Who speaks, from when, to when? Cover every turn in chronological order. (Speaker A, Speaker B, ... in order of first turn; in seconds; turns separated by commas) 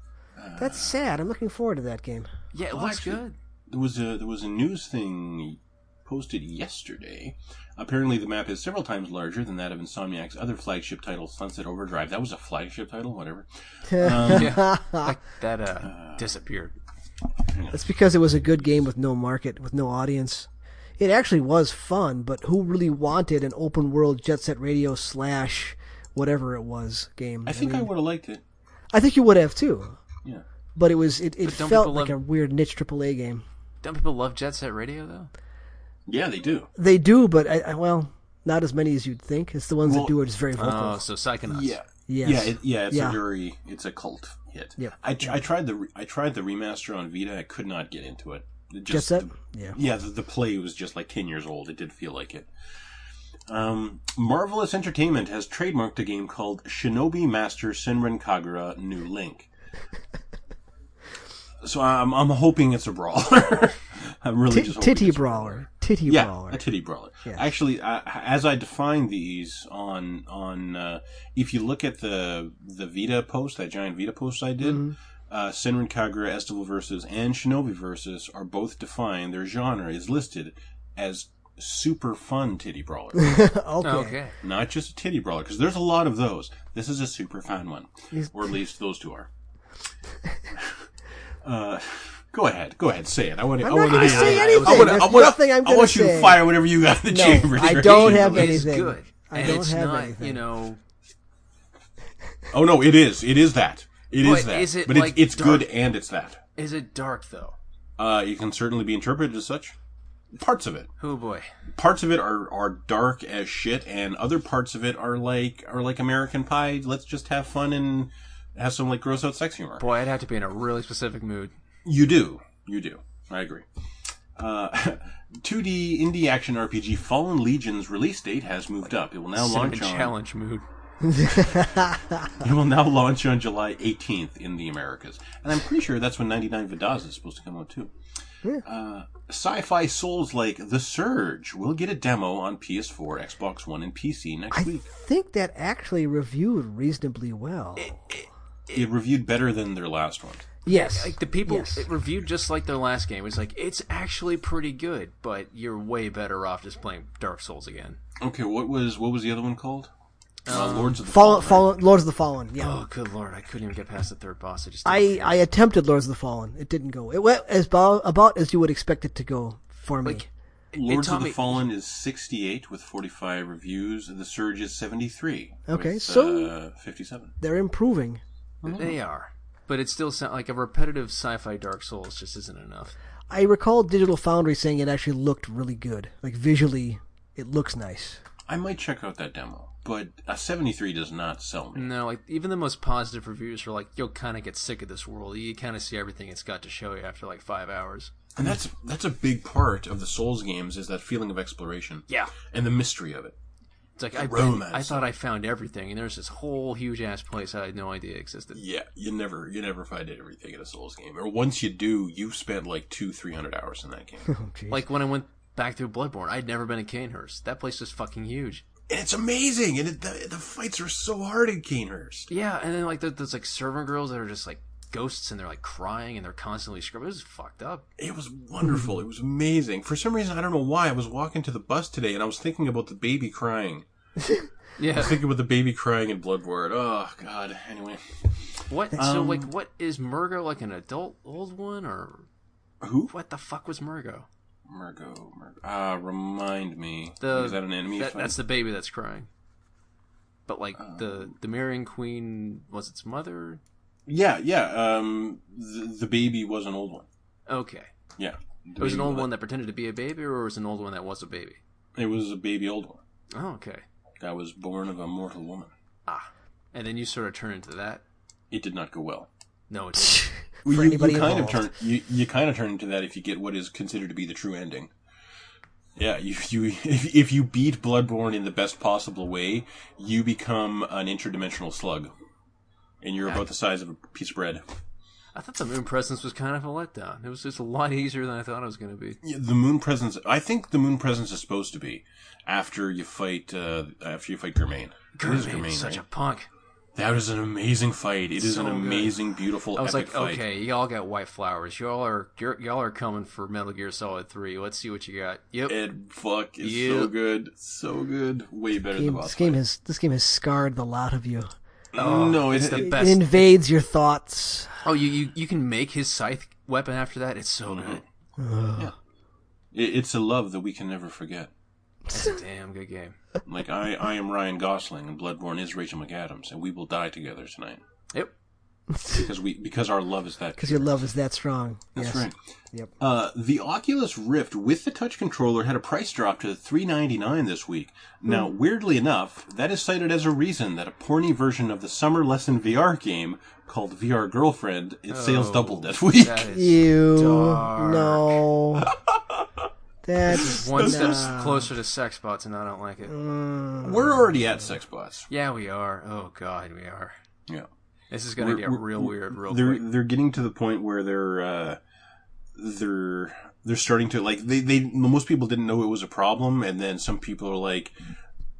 Speaker A: 0.3-0.9, Speaker B: 0.6-2.3, Speaker C: 2.5-3.3, Speaker A: 2.7-14.6, Speaker B: 13.9-15.1, Speaker C: 14.1-16.7, Speaker A: 15.8-16.3, Speaker A: 17.5-18.9, Speaker B: 17.7-27.9, Speaker A: 27.4-28.4, Speaker B: 28.9-30.0, Speaker B: 30.7-33.4, Speaker C: 31.4-32.2, Speaker C: 33.8-35.3, Speaker A: 36.1-36.7, Speaker B: 36.8-41.0, Speaker A: 39.8-40.2, Speaker C: 40.5-41.8, Speaker A: 41.5-52.5, Speaker B: 42.1-43.2, Speaker B: 48.9-49.8, Speaker A: 53.5-59.5, Speaker A: 61.6-83.4, Speaker B: 64.5-66.6, Speaker B: 74.6-74.9, Speaker B: 83.2-84.2, Speaker C: 83.8-84.3, Speaker A: 84.4-89.3, Speaker B: 88.1-88.5, Speaker A: 90.5-90.8, Speaker A: 91.4-98.7, Speaker B: 93.6-96.4, Speaker C: 93.8-95.3, Speaker B: 97.1-100.4, Speaker C: 97.6-100.8, Speaker A: 102.5-106.4, Speaker C: 104.2-105.7, Speaker C: 106.5-107.5, Speaker A: 108.0-109.7, Speaker A: 110.3-110.9, Speaker C: 111.0-111.5, Speaker A: 111.7-119.8, Speaker C: 119.8-121.5, Speaker A: 121.8-123.7, Speaker A: 124.3-130.1, Speaker C: 129.3-130.6, Speaker B: 131.1-132.0, Speaker A: 132.3-137.9, Speaker A: 138.6-144.9, Speaker B: 144.5-148.1, Speaker C: 147.8-148.9, Speaker A: 148.7-150.4, Speaker B: 150.6-151.8, Speaker C: 150.7-158.0, Speaker A: 158.2-159.9, Speaker C: 160.5-161.0, Speaker A: 160.5-161.8, Speaker B: 161.0-162.7, Speaker C: 162.6-165.4, Speaker B: 164.8-170.3, Speaker C: 170.0-171.6, Speaker A: 170.7-177.3, Speaker B: 175.7-176.5, Speaker B: 177.4-178.2, Speaker A: 178.6-178.9, Speaker C: 178.7-182.9, Speaker B: 183.3-188.2, Speaker A: 188.5-191.9, Speaker C: 191.7-198.1, Speaker A: 198.3-203.4, Speaker C: 202.1-202.3, Speaker C: 204.0-208.6, Speaker A: 204.1-205.1, Speaker A: 208.5-214.3, Speaker B: 214.3-214.8, Speaker C: 214.7-218.6, Speaker A: 218.9-222.3, Speaker C: 222.3-227.8, Speaker A: 228.0-233.8, Speaker C: 234.8-235.2, Speaker A: 234.9-239.5, Speaker C: 238.7-242.3, Speaker A: 242.8-243.1, Speaker C: 243.1-244.3, Speaker A: 244.7-248.4, Speaker C: 247.2-249.3, Speaker C: 250.5-253.6, Speaker A: 250.8-251.3, Speaker A: 254.1-257.1, Speaker C: 257.5-257.9, Speaker A: 258.2-259.3, Speaker C: 258.8-261.6, Speaker A: 261.9-263.0, Speaker C: 263.3-263.8, Speaker A: 264.2-265.7, Speaker C: 266.1-268.0, Speaker A: 268.5-269.3, Speaker C: 269.7-270.3, Speaker B: 270.1-271.6, Speaker A: 270.6-274.9, Speaker A: 276.0-282.1, Speaker A: 283.0-284.6, Speaker C: 285.3-289.2, Speaker A: 289.2-296.0, Speaker C: 295.1-296.5, Speaker A: 296.9-300.4, Speaker C: 298.4-299.1, Speaker C: 299.8-305.8, Speaker A: 305.7-309.6, Speaker C: 306.6-307.1, Speaker B: 308.9-311.5, Speaker A: 311.9-313.0, Speaker C: 311.9-313.4, Speaker B: 312.7-314.7, Speaker C: 314.8-318.0, Speaker A: 317.6-318.0, Speaker B: 318.4-318.9, Speaker A: 319.7-321.5, Speaker C: 322.1-323.2, Speaker A: 323.4-327.8, Speaker B: 329.0-329.2, Speaker A: 329.1-330.9, Speaker B: 330.6-332.9, Speaker A: 331.9-332.3, Speaker A: 333.0-346.5, Speaker C: 345.1-348.5, Speaker B: 346.5-348.9, Speaker A: 348.8-349.7, Speaker B: 350.0-351.7, Speaker A: 350.3-351.3, Speaker C: 350.3-353.1, Speaker B: 353.1-354.3, Speaker A: 353.8-355.3, Speaker C: 355.3-357.1, Speaker C: 358.1-359.8, Speaker A: 358.4-361.8, Speaker A: 362.5-367.9